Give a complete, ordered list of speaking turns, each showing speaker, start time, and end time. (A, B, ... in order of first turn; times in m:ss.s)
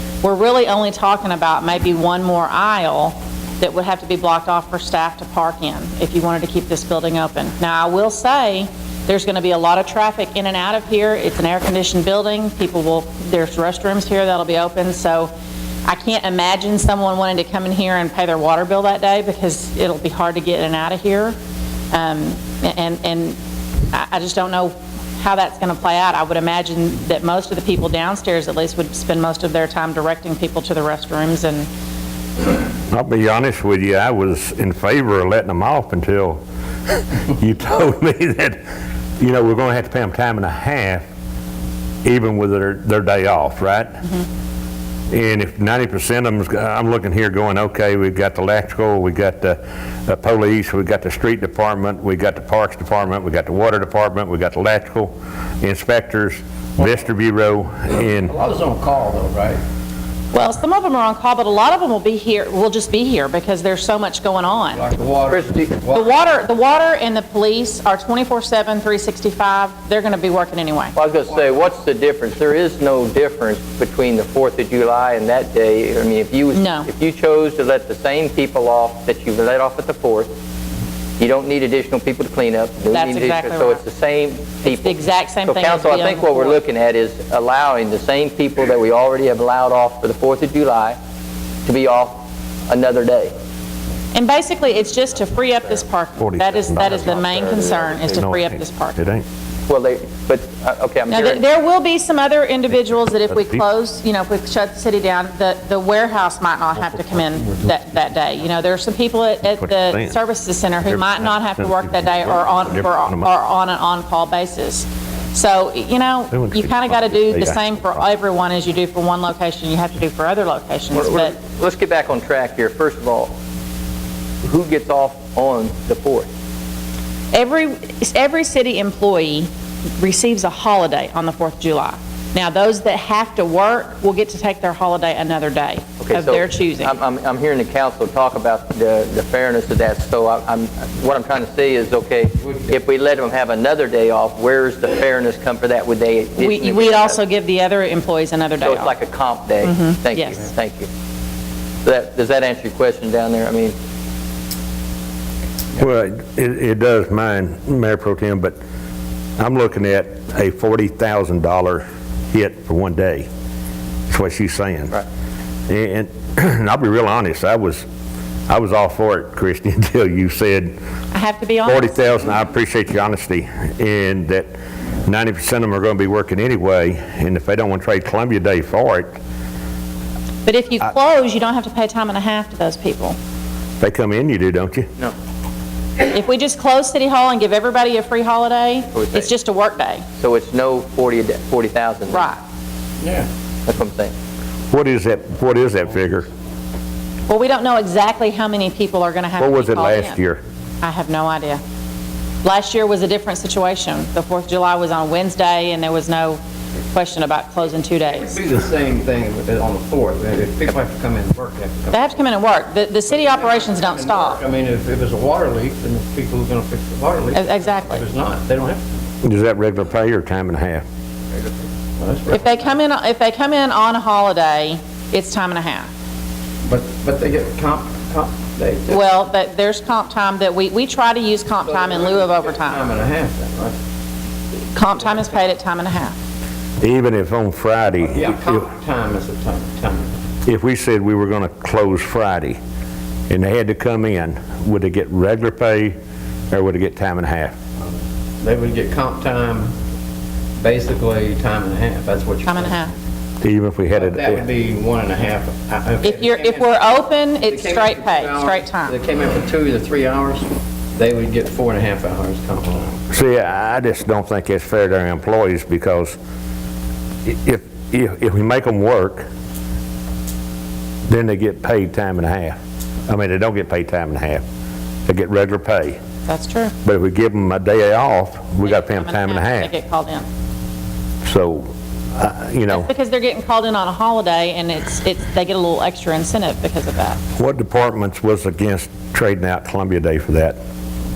0:00.2-0:15.3 A
0:15.9-0:21.4 A
0:21.9-0:23.4 A
0:23.9-0:31.7 A
0:32.9-0:38.6 B
0:39.2-0:41.1 B
0:42.0-0:44.0 B
0:45.1-0:58.3 B
0:58.2-0:59.6 C
1:00.3-1:04.8 A
1:04.7-1:06.2 C
1:05.3-1:05.7 D
1:05.9-1:11.0 A
1:11.0-1:20.3 D
1:16.5-1:16.9 A
1:21.2-1:31.0 D
1:22.9-1:23.8 A
1:24.6-1:26.6 A
1:31.6-1:33.3 D
1:34.1-1:39.0 A
1:36.2-1:37.1 B
1:36.9-1:38.0 D
1:38.1-1:39.2 B
1:39.7-1:41.4 D
1:41.1-2:01.4 A
1:43.3-1:43.6 B
1:49.6-1:50.2 B
1:50.8-1:53.3 B
1:56.3-1:58.0 B
2:00.9-2:03.4 D
2:04.4-2:06.3 D
2:07.3-2:16.9 A
2:16.0-2:27.2 D
2:22.5-2:22.7 C
2:26.4-2:29.0 A
2:28.6-2:30.9 D
2:29.6-2:30.5 A
2:31.8-2:33.8 D
2:35.8-2:38.6 B
2:39.4-2:43.3 B
2:44.1-2:45.0 B
2:45.7-2:47.8 B
2:48.5-2:50.8 B
2:51.1-2:52.0 A
2:51.6-2:54.5 B
2:55.0-2:59.2 B
3:00.4-3:03.2 A
3:03.8-3:04.9 B
3:06.1-3:10.0 A
3:09.0-3:09.3 D
3:10.2-3:12.3 D
3:12.1-3:12.4 A
3:13.0-3:13.3 C
3:13.7-3:14.1 D
3:14.7-3:16.3 B
3:17.3-3:20.2 A
3:19.4-3:20.4 B
3:20.8-3:21.6 A
3:22.4-3:26.4 A
3:26.9-3:28.3 A
3:28.1-3:32.2 C
3:31.9-3:34.4 A
3:33.1-3:38.8 C
3:37.3-3:38.0 A
3:39.2-3:40.8 B
3:42.0-3:42.6 C
3:42.3-3:45.9 A
3:46.6-3:49.1 C
3:48.9-3:52.8 A
3:51.6-3:53.8 C
3:54.7-3:56.2 A
3:56.8-3:58.6 B
3:58.1-4:00.2 C
4:00.4-4:02.6 B
4:03.3-4:06.0 B
4:06.5-4:07.6 B
4:08.4-4:09.7 C
4:10.6-4:12.8 C
4:12.4-4:12.9 A
4:13.4-4:14.5 B
4:13.9-4:23.0 C
4:16.0-4:19.0 A
4:23.1-4:26.2 B
4:27.2-4:29.2 B
4:31.1-4:32.6 B
4:33.1-4:34.4 B
4:35.1-4:36.0 B
4:36.3-4:36.7 A
4:36.8-4:39.7 B
4:38.6-4:40.3 A
4:41.2-4:42.9 B
4:42.7-4:47.2 A
4:47.4-4:50.6 B